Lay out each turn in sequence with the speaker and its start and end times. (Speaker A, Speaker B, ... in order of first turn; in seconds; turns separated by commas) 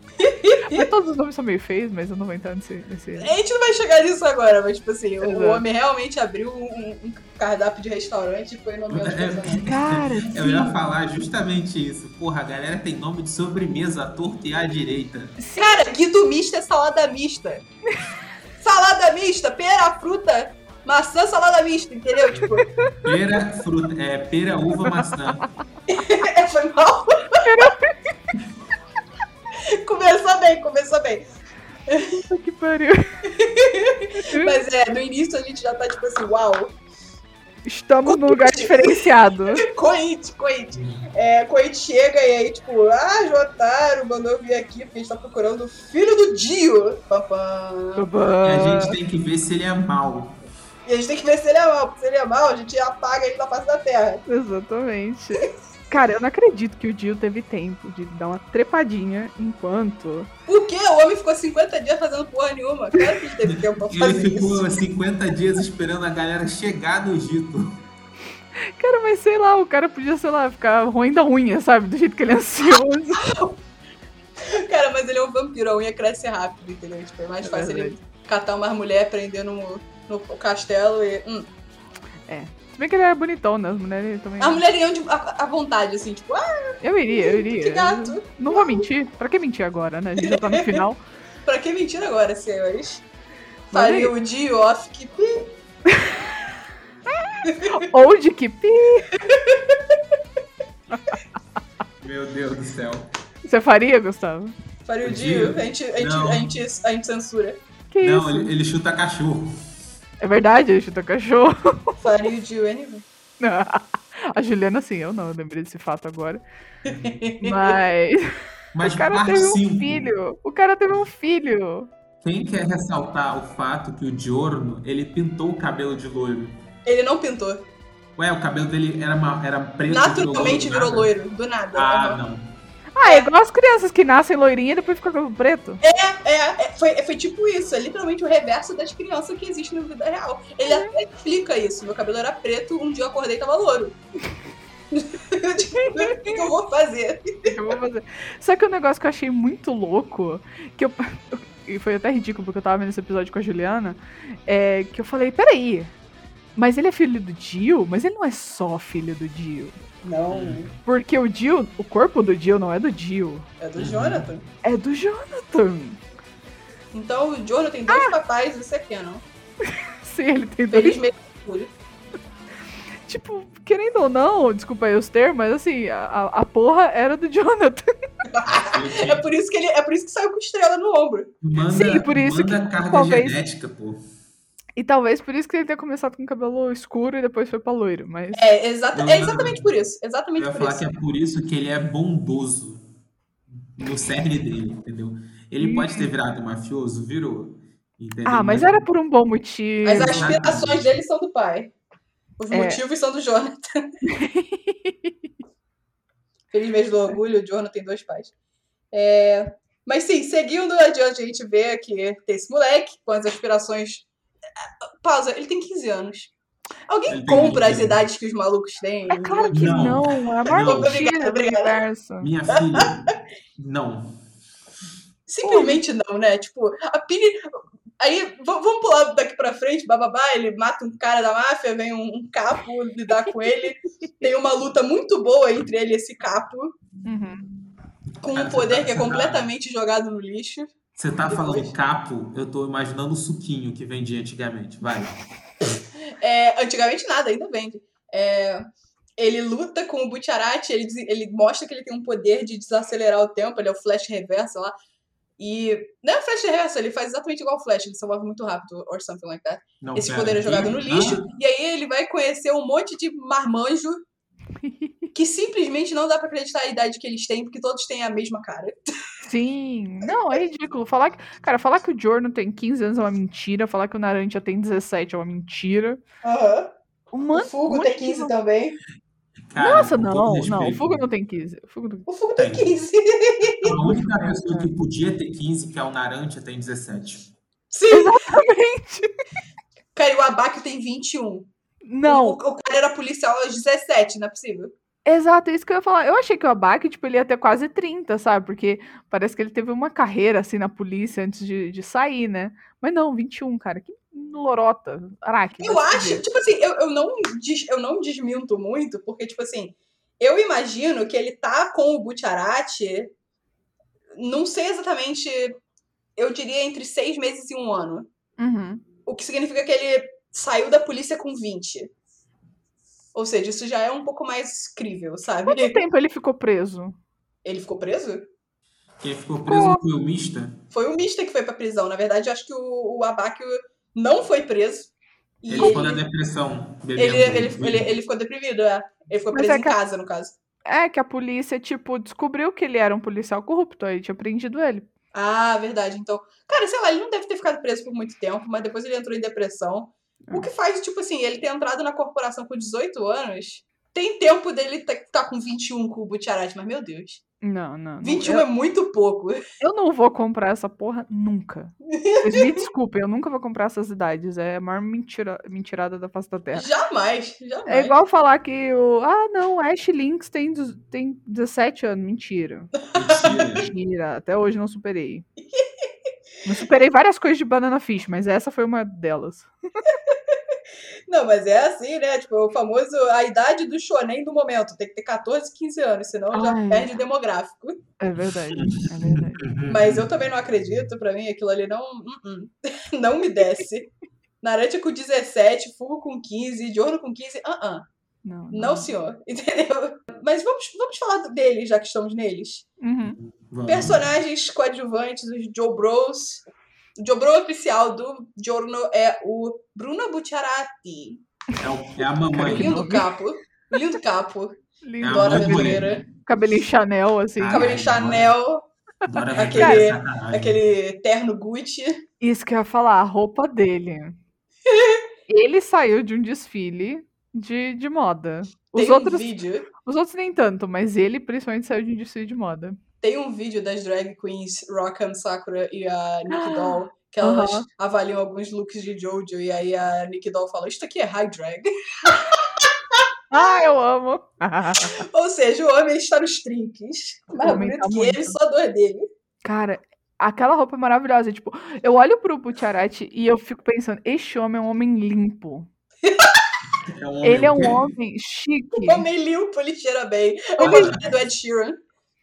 Speaker A: 0.2-0.9, Speaker B: 0.7-3.3, Speaker A: 3.2-9.7, Speaker B: 5.2-5.6, Speaker C: 8.9-15.4, Speaker B: 9.7-10.8, Speaker B: 15.4-15.8, Speaker A: 15.6-17.6, Speaker A: 18.6-22.7, Speaker C: 22.4-25.4, Speaker A: 25.9-27.5, Speaker B: 27.4-28.1, Speaker A: 29.6-31.3, Speaker A: 31.9-32.2, Speaker B: 32.3-33.1, Speaker A: 33.3-36.7, Speaker B: 34.3-34.6, Speaker B: 37.7-39.7, Speaker A: 38.1-48.1, Speaker C: 40.7-41.1, Speaker B: 48.0-49.0, Speaker C: 48.4-50.5, Speaker A: 50.9-54.2, Speaker B: 54.3-60.3, Speaker A: 60.5-64.7, Speaker C: 63.5-67.8, Speaker B: 68.6-73.3, Speaker A: 73.2-73.6, Speaker A: 74.4-81.5, Speaker B: 77.4-78.0, Speaker B: 82.3-84.6, Speaker A: 84.4-88.9, Speaker B: 86.8-91.0, Speaker A: 90.2-90.8, Speaker A: 91.5-93.0, Speaker B: 93.7-94.1, Speaker A: 93.7-95.5, Speaker B: 95.9-96.2, Speaker A: 97.5-97.7, Speaker B: 97.5-99.1, Speaker A: 99.1-100.0, Speaker C: 102.0-103.1, Speaker B: 103.5-104.5, Speaker A: 104.9-107.6, Speaker C: 105.0-106.5, Speaker B: 107.9-108.5, Speaker C: 108.0-109.6, Speaker B: 110.2-112.0, Speaker A: 112.0-113.0, Speaker B: 113.4-116.4, Speaker C: 116.9-117.1, Speaker A: 116.9-117.8, Speaker B: 117.4-118.3, Speaker C: 118.7-120.1, Speaker B: 118.8-121.9, Speaker C: 122.2-126.6, Speaker A: 126.9-127.7, Speaker C: 128.2-131.1, Speaker A: 129.9-132.2, Speaker C: 131.7-132.5, Speaker B: 133.0-135.8, Speaker A: 135.8-144.0, Speaker B: 140.6-140.9, Speaker A: 144.9-147.6, Speaker B: 145.7-146.5, Speaker B: 147.4-155.9, Speaker B: 156.6-159.8, Speaker A: 160.0-160.7, Speaker C: 160.3-160.7, Speaker B: 160.8-163.4, Speaker A: 163.6-164.4, Speaker C: 163.8-164.3, Speaker B: 164.6-166.0, Speaker A: 166.9-169.2, Speaker B: 167.9-168.1, Speaker B: 169.7-171.0, Speaker A: 170.7-171.7, Speaker B: 173.1-177.9, Speaker A: 178.3-181.3, Speaker C: 178.5-179.2, Speaker C: 181.4-184.0, Speaker B: 181.7-183.4, Speaker B: 184.8-188.4, Speaker A: 188.3-190.8, Speaker C: 188.9-189.7, Speaker C: 190.4-192.8, Speaker C: 193.7-198.8, Speaker B: 195.6-196.1, Speaker B: 198.3-200.3, Speaker A: 199.8-201.7, Speaker C: 199.9-200.9, Speaker A: 202.4-203.8, Speaker B: 202.5-202.8, Speaker B: 204.1-205.1, Speaker A: 206.5-208.3, Speaker A: 208.9-214.1, Speaker A: 215.0-216.3, Speaker A: 216.9-219.9, Speaker C: 217.1-218.0, Speaker B: 219.1-222.3, Speaker C: 219.5-221.0, Speaker A: 220.6-221.8, Speaker C: 222.2-224.1, Speaker A: 222.5-222.9, Speaker A: 225.3-236.7, Speaker B: 225.4-225.8, Speaker B: 237.1-237.5, Speaker A: 238.2-240.8, Speaker C: 238.3-239.5, Speaker C: 241.0-245.2, Speaker A: 241.3-241.7, Speaker A: 246.2-254.8, Speaker A: 255.4-264.0, Speaker C: 259.8-261.3, Speaker B: 264.6-264.9, Speaker A: 265.1-268.8, Speaker B: 269.3-276.0, Speaker A: 276.2-276.7, Speaker B: 277.1-278.3, Speaker A: 277.3-278.8, Speaker C: 279.5-281.0, Speaker B: 279.6-282.1, Speaker A: 282.1-283.8, Speaker C: 282.4-282.7, Speaker C: 283.6-287.3, Speaker B: 283.8-284.7, Speaker A: 287.7-288.2, Speaker B: 287.9-289.1, Speaker A: 289.9-291.5, Speaker B: 291.9-292.4, Speaker A: 292.1-294.7, Speaker B: 295.1-306.2, Speaker A: 305.6-313.1, Speaker A: 314.2-315.6, Speaker A: 316.2-318.1, Speaker B: 318.4-318.8, Speaker A: 319.1-321.9, Speaker A: 323.1-325.8, Speaker B: 325.5-327.0, Speaker A: 327.4-328.3, Speaker C: 329.0-330.6, Speaker B: 329.5-329.8, Speaker A: 330.7-334.9, Speaker A: 335.4-336.0, Speaker C: 335.5-337.9, Speaker A: 337.0-340.4, Speaker B: 339.3-339.8, Speaker B: 340.7-344.9, Speaker A: 345.1-357.2, Speaker B: 357.4-358.5, Speaker A: 358.0-359.4, Speaker B: 359.6-366.7, Speaker A: 361.9-362.6, Speaker A: 366.5-368.0, Speaker B: 367.7-372.7, Speaker A: 372.8-373.5, Speaker C: 372.9-373.7, Speaker B: 373.6-375.3, Speaker B: 376.4-379.5, Speaker A: 380.1-380.4, Speaker A: 381.1-387.8, Speaker B: 386.3-387.0, Speaker B: 388.0-389.5, Speaker C: 389.1-390.1, Speaker A: 389.7-397.9, Speaker B: 398.2-398.9, Speaker A: 398.5-402.7, Speaker B: 402.8-403.2, Speaker C: 403.2-404.0, Speaker A: 403.7-406.4, Speaker A: 407.0-411.2, Speaker C: 411.6-412.8, Speaker B: 412.3-413.1, Speaker A: 412.4-416.0, Speaker B: 414.8-417.7, Speaker C: 415.0-416.1, Speaker C: 417.4-418.4, Speaker A: 417.5-418.7, Speaker C: 419.0-420.6, Speaker A: 419.4-422.0, Speaker B: 419.6-419.8, Speaker B: 422.2-424.2, Speaker A: 424.7-425.0, Speaker B: 425.3-429.3, Speaker A: 428.8-429.7, Speaker B: 429.8-432.8, Speaker A: 433.0-443.0, Speaker B: 436.3-437.7, Speaker B: 443.3-445.0, Speaker A: 444.8-449.1, Speaker B: 447.4-448.4, Speaker B: 449.4-455.7, Speaker A: 456.0-456.4, Speaker C: 456.9-457.8, Speaker B: 457.2-459.1, Speaker A: 458.7-461.8, Speaker C: 460.6-461.2, Speaker B: 460.6-460.9